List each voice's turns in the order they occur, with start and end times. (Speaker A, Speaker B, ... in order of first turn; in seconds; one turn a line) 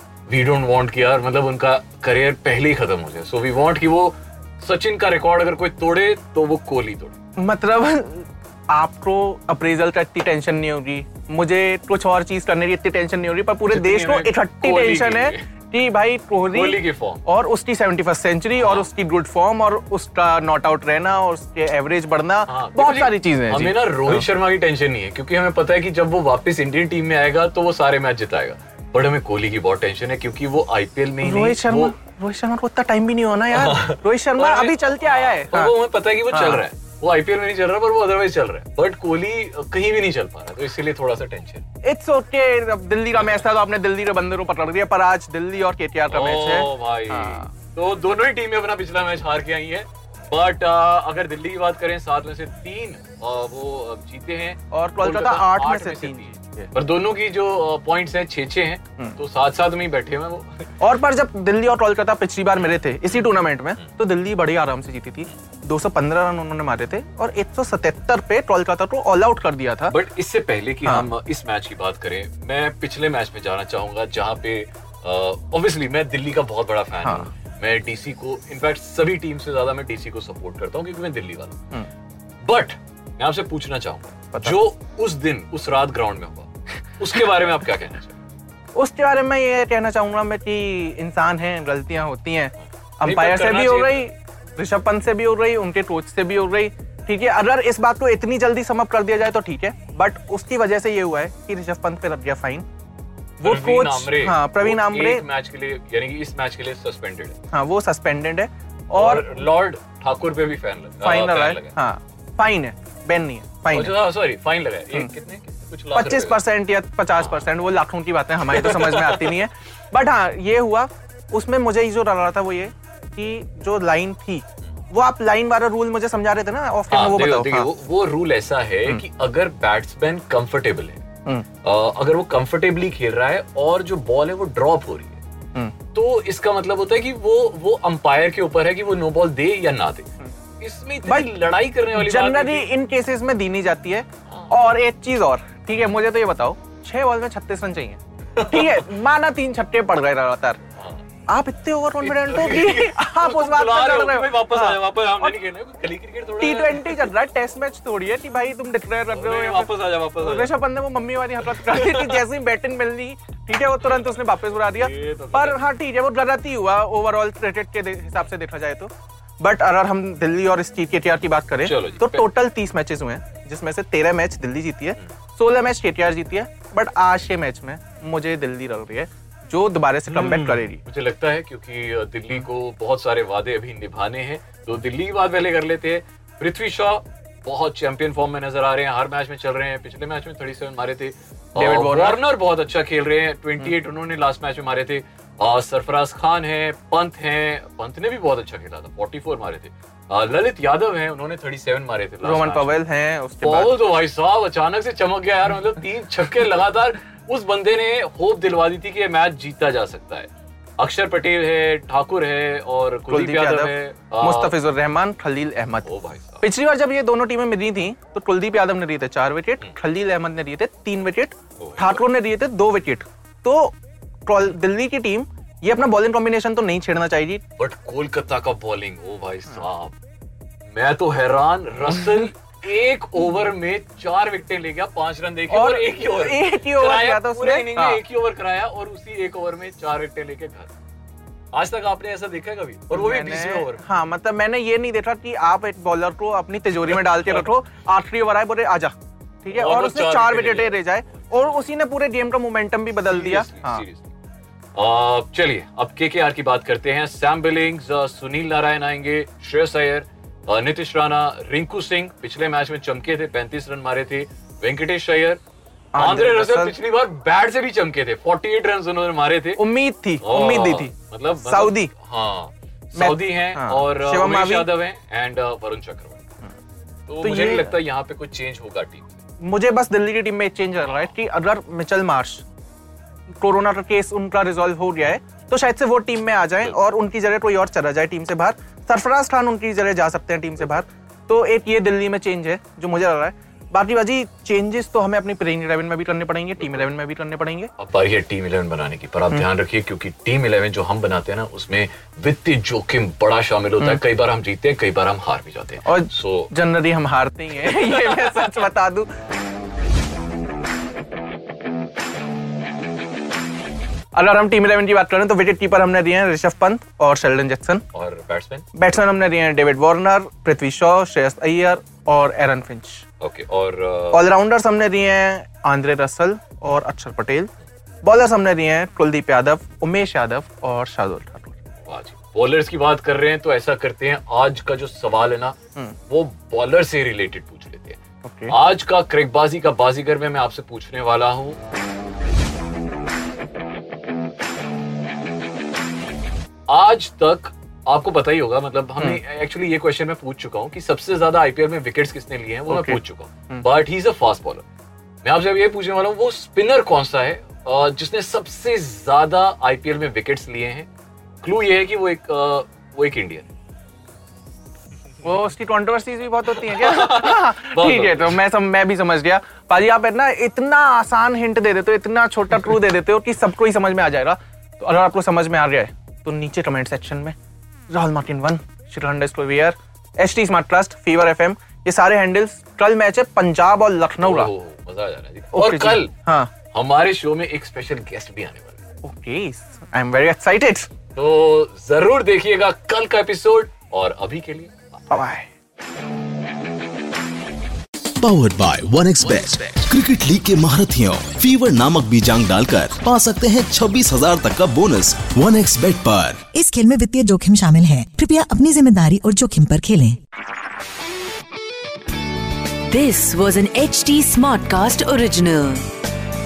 Speaker A: 0.3-7.2
Speaker B: 7.4-24.3
Speaker A: 13.7-15.5
Speaker A: 16.5-17.2
Speaker A: 18.6-18.9
Speaker A: 22.5-31.9
Speaker B: 31.2-35.8
Speaker A: 33.5-41.6
Speaker B: 36.3-36.6
Speaker B: 41.9-47.5
Speaker A: 46.1-60.7
Speaker B: 54.7-56.7
Speaker B: 60.8-70.0
Speaker A: 63.1-63.9
Speaker A: 69.9-81.6
Speaker B: 70.8-71.1
Speaker B: 77.0-77.3
Speaker A: 82.4-88.2
Speaker B: 88.8-102.6
Speaker A: 93.0-94.1
Speaker B: 103.4-105.2
Speaker A: 103.4-107.4
Speaker B: 107.5-109.4
Speaker A: 108.9-111.8
Speaker B: 111.0-114.0
Speaker A: 113.7-116.4
Speaker B: 115.9-127.7
Speaker A: 117.2-117.5
Speaker A: 118.5-119.4
Speaker A: 126.9-131.0
Speaker A: 131.6-135.2
Speaker A: 135.9-140.1
Speaker A: 140.6-142.7
Speaker B: 141.1-141.3
Speaker B: 141.9-150.6
Speaker A: 144.3-144.5
Speaker A: 148.4-148.9
Speaker A: 150.8-151.0
Speaker B: 151.3-155.4
Speaker A: 152.0-157.1
Speaker B: 156.4-180.8
Speaker A: 159.1-160.5
Speaker A: 161.4-162.2
Speaker A: 164.7-165.6
Speaker A: 171.6-172.3
Speaker A: 180.1-202.8
Speaker B: 191.6-192.2
Speaker B: 202.2-203.8
Speaker A: 203.4-214.5
Speaker B: 213.1-215.9
Speaker A: 215.8-216.4
Speaker B: 216.4-223.7
Speaker A: 221.6-222.0
Speaker B: 224.2-227.4
Speaker A: 227.6-230.0
Speaker A: 230.7-240.7
Speaker B: 235.5-238.0
Speaker A: 241.5-243.8
Speaker B: 242.9-253.8
Speaker A: 249.5-251.6
Speaker A: 253.1-254.1
Speaker A: 254.8-265.4
Speaker B: 265.9-266.8
Speaker A: 266.0-269.6
Speaker B: 269.6-271.9
Speaker A: 270.2-276.2
Speaker B: 272.9-274.7
Speaker A: 277.1-279.2
Speaker B: 277.2-277.7
Speaker B: 279.4-282.4
Speaker B: 283.4-297.7
Speaker A: 296.6-296.9
Speaker A: 297.8-306.5
Speaker B: 305.9-309.1
Speaker A: 307.6-308.5
Speaker B: 314.1-317.8
Speaker A: 317.9-318.7
Speaker B: 318.8-323.0
Speaker A: 323.2-324.3
Speaker B: 324.1-327.5
Speaker B: 328.0-331.6
Speaker A: 331.8-335.6
Speaker A: 336.1-341.6
Speaker B: 338.2-338.5
Speaker A: 346.7-354.6
Speaker B: 352.7-353.6
Speaker A: 355.2-360.9
Speaker A: 361.4-363.5
Speaker B: 365.2-377.3
Speaker A: 366.5-368.4
Speaker B: 377.9-384.5
Speaker A: 384.2-386.1
Speaker B: 385.5-386.5
Speaker A: 386.7-388.8
Speaker B: 389.0-390.9
Speaker A: 391.1-394.7
Speaker B: 395.1-395.5
Speaker C: 398.2-406.5
Speaker D: 406.5-410.2
Speaker E: 412.9-415.9